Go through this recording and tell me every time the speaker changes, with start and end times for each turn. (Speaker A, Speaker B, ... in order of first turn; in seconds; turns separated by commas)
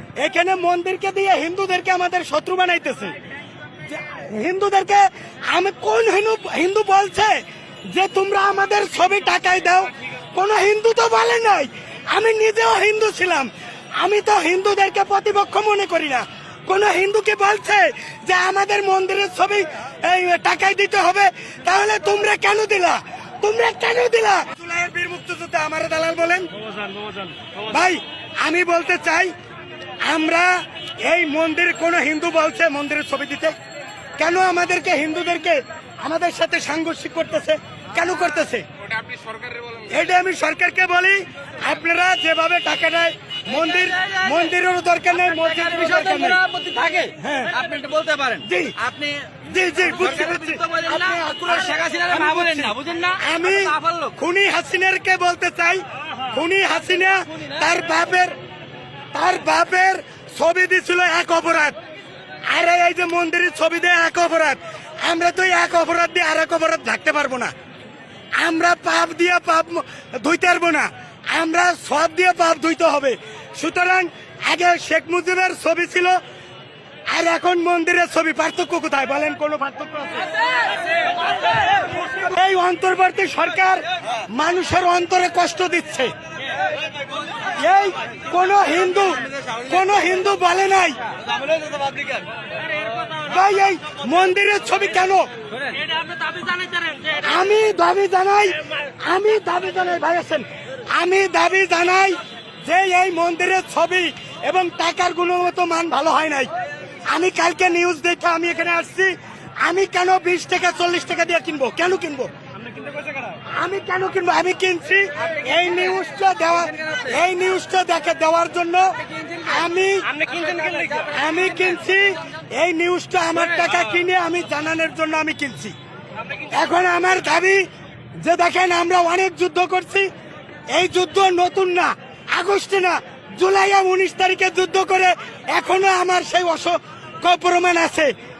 Speaker A: 0.2-3.1, Speaker A: 3.9-26.5, Speaker A: 27.6-29.3, Speaker A: 30.0-33.5, Speaker A: 34.2-38.6, Speaker A: 39.8-46.4, Speaker B: 43.9-44.2, Speaker B: 45.3-49.4, Speaker A: 47.2-47.5, Speaker A: 48.4-48.8, Speaker A: 49.4-58.4, Speaker B: 50.0-54.1, Speaker A: 59.1-61.8, Speaker A: 62.5-67.5, Speaker A: 68.3-76.2, Speaker A: 77.1-80.3, Speaker A: 82.0-86.1, Speaker A: 87.5-91.0, Speaker B: 91.5-92.1, Speaker A: 93.2-95.3, Speaker B: 95.7-97.1, Speaker A: 97.2-106.5, Speaker A: 107.1-112.3, Speaker A: 113.4-120.2, Speaker B: 120.2-121.1, Speaker A: 121.1-125.7, Speaker A: 126.5-127.7, Speaker A: 128.2-130.1, Speaker A: 130.7-138.1